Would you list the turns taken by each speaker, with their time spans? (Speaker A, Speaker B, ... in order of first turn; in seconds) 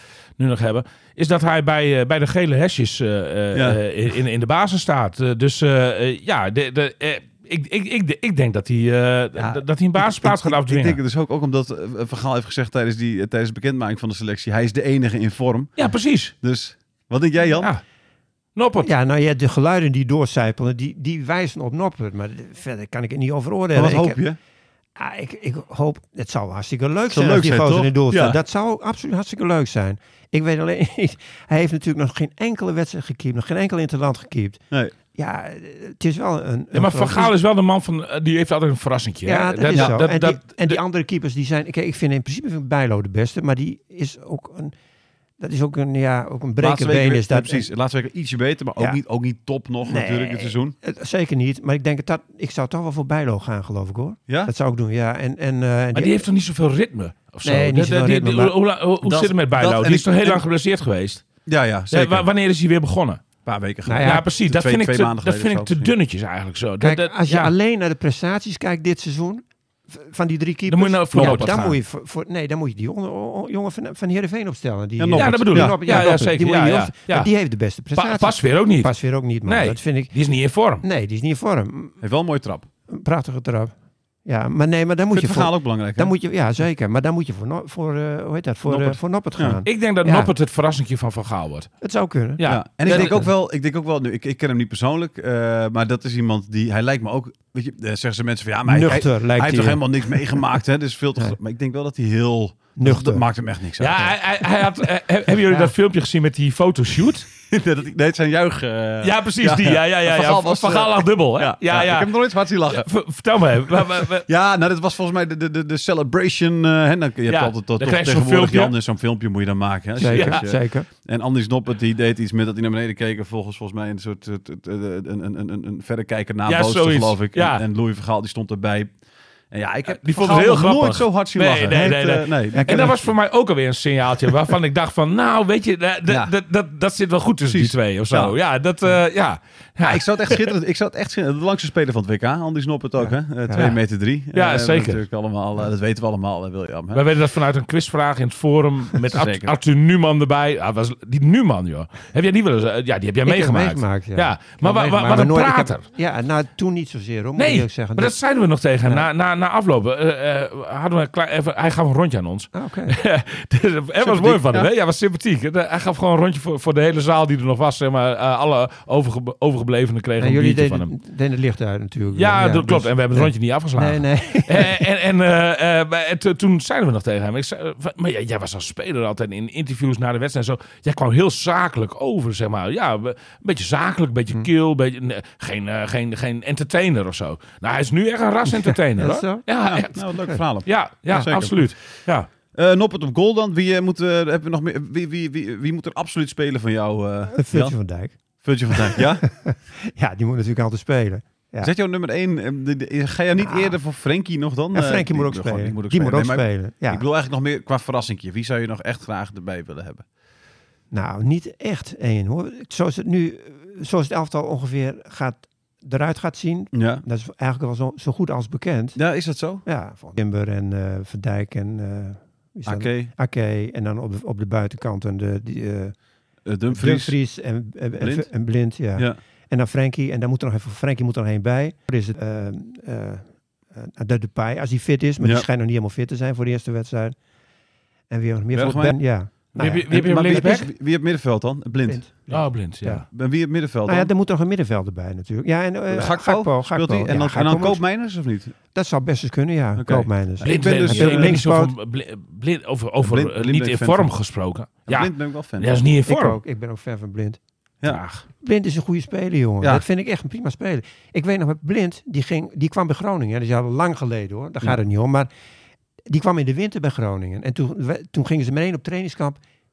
Speaker A: 0.4-11.0, 15.8-16.3, 18.6-18.9, 36.7-40.8, 55.9-61.3, 61.9-63.3, 64.0-67.5, 70.7-71.8, 75.1-77.3, 77.9-80.8, 89.7-91.7, 92.4-93.2, 103.8-107.3, 109.0-114.3, 117.3-118.7, 120.1-120.4, 126.5-127.6, 129.9-140.1, 143.6-143.8, 144.3-145.0, 146.9-155.8, 157.4-170.9, 172.1-192.3, 239.6-240.7, 242.3-243.1, 250.4-256.4, 257.9-258.2
Speaker B: 3.5-3.8, 9.4-15.8, 16.4-17.7, 23.7-24.4, 27.1-28.4, 46.6-50.8, 59.0-60.1, 61.5-62.3, 63.5-65.9, 71.1-71.6, 75.0-76.3, 82.0-82.7, 85.1-86.1, 88.7-89.6, 92.5-104.3, 107.5-112.9, 113.7-128.9, 129.5-133.0, 137.5-138.4, 139.8-147.0, 149.1-149.6, 164.1-164.7, 189.7-192.0, 192.5-197.8, 198.4-199.2, 201.6-210.1, 216.7-217.0, 219.0-219.6, 222.7-223.1, 226.4-227.2, 228.0-228.3, 238.5-242.5, 243.1-244.1, 245.9-248.5, 249.8-251.4, 253.0-254.1, 254.9-255.8
Speaker C: 18.8-24.2, 25.0-34.6, 35.1-37.3, 39.2-44.8, 45.4-47.7, 49.8-56.2, 57.4-58.5, 59.8-60.4, 63.9-64.2, 66.8-80.1, 80.8-82.0, 82.9-83.7, 84.2-90.3, 91.8-93.3, 98.7-100.6, 102.8-103.2, 120.0-120.9, 131.7-133.0, 143.0-143.7, 153.2-158.1, 162.5-162.9, 170.2-174.8, 188.7-189.4, 197.3-201.7, 203.4-203.8, 204.7-207.0, 210.9-219.0, 219.6-226.0, 226.7-237.2, 238.1-240.6, 241.9-243.1, 243.8-247.8, 248.7-251.7, 256.1-257.4, 258.4-265.3, 266.1-269.4